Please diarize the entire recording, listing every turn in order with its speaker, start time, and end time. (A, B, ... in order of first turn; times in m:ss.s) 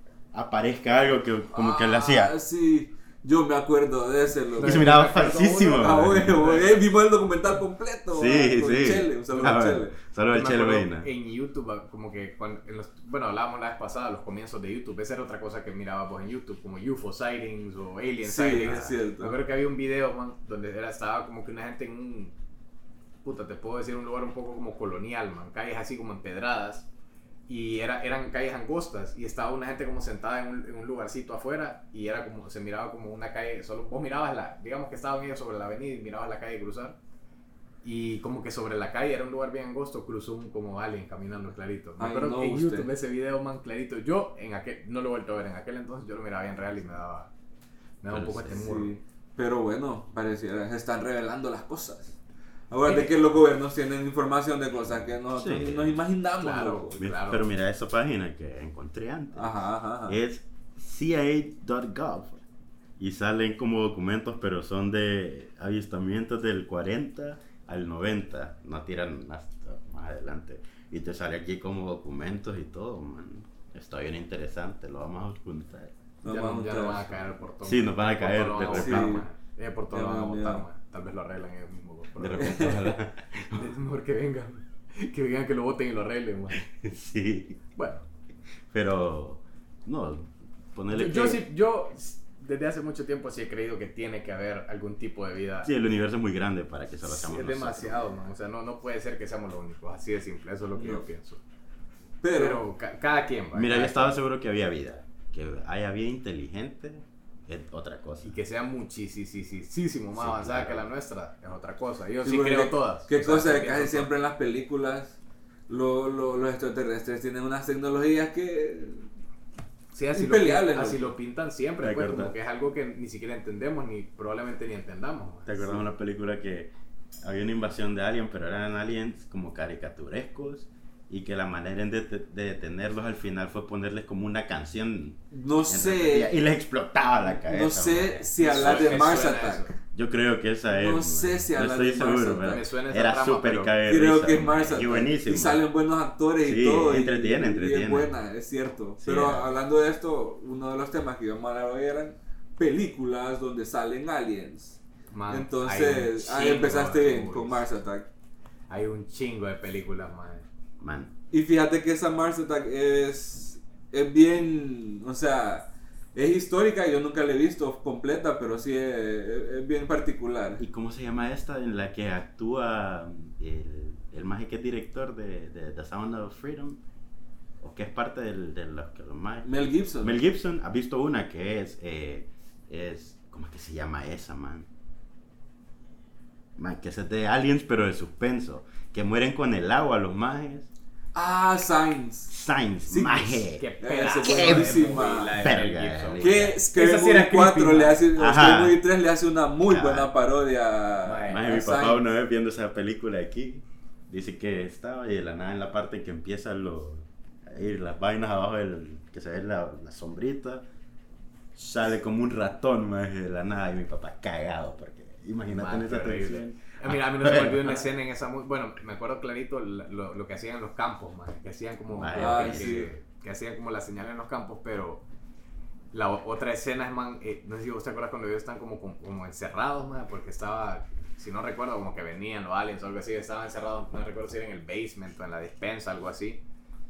0:00.3-0:02.3 A
0:01.5-0:04.9 B
0:04.6-0:06.8 C
0:04.6-0:06.6 A
0:05.7-0:09.9 B
0:08.1-0:11.1 A
0:09.3-0:09.6 C
0:10.3-0:22.3 C
0:18.2-0:19.4 B
0:18.6-0:18.9 A
0:23.2-0:26.9 C
0:27.5-0:37.0 C
0:37.8-0:47.3 C
0:42.0-0:42.9 B
0:48.0-0:49.0 C
0:48.1-0:48.7 A
0:48.5-0:52.2 B
0:52.7-0:56.9 B
0:52.8-0:53.3 C
0:54.8-0:56.0 A
0:56.4-0:57.5 C
0:57.0-0:59.6 A
0:59.4-1:00.2 B
1:00.1-1:02.4 A
1:03.0-1:15.9 A
1:16.2-1:17.1 B
1:16.2-1:22.7 C
1:17.6-1:19.2 A
1:18.7-1:19.2 B
1:19.9-1:20.6 B
1:22.2-1:23.7 A
1:22.4-1:22.9 B
1:23.5-1:26.6 C
1:26.6-1:27.6 A
1:27.8-1:28.0 C
1:28.7-1:31.4 A
1:30.9-1:35.7 C
1:35.6-1:38.0 A
1:37.0-1:41.4 C
1:40.8-1:41.0 B
1:42.2-1:42.6 B
1:42.3-1:44.2 C
1:43.5-1:48.4 A
1:48.2-1:54.1 C
1:50.2-1:50.9 A
1:52.2-1:55.2 B
1:55.7-1:59.0 B
1:59.9-2:05.8 C
2:00.1-2:01.1 B
2:01.8-2:02.3 A
2:05.4-2:19.3 A
2:15.3-2:16.3 B
2:17.4-2:19.7 B
2:18.4-2:19.7 C
2:19.9-2:25.6 A
2:20.7-2:22.6 B
2:22.4-2:23.8 C
2:23.9-2:38.1 B
2:24.3-2:25.0 C
2:26.4-2:28.1 A
2:29.0-2:29.5 A
2:35.1-2:37.6 C
2:38.7-2:40.4 C
2:40.8-2:41.1 A
2:41.3-2:50.6 B
2:50.6-2:56.8 A
2:57.6-2:59.5 A
2:59.4-3:00.1 B
3:00.0-3:04.7 A
3:06.6-3:10.7 A
3:11.1-3:12.3 B
3:12.3-3:13.6 A
3:12.9-3:15.5 B
3:13.6-3:18.0 C
3:14.2-3:16.6 A
3:16.2-3:22.0 B
3:18.2-3:18.8 A
3:19.7-3:20.1 A
3:21.0-3:21.5 C
3:21.3-3:30.6 A
3:31.5-3:37.8 A
3:35.5-3:45.0 C
3:41.9-3:42.9 A
3:42.1-3:42.9 B
3:45.9-3:56.4 C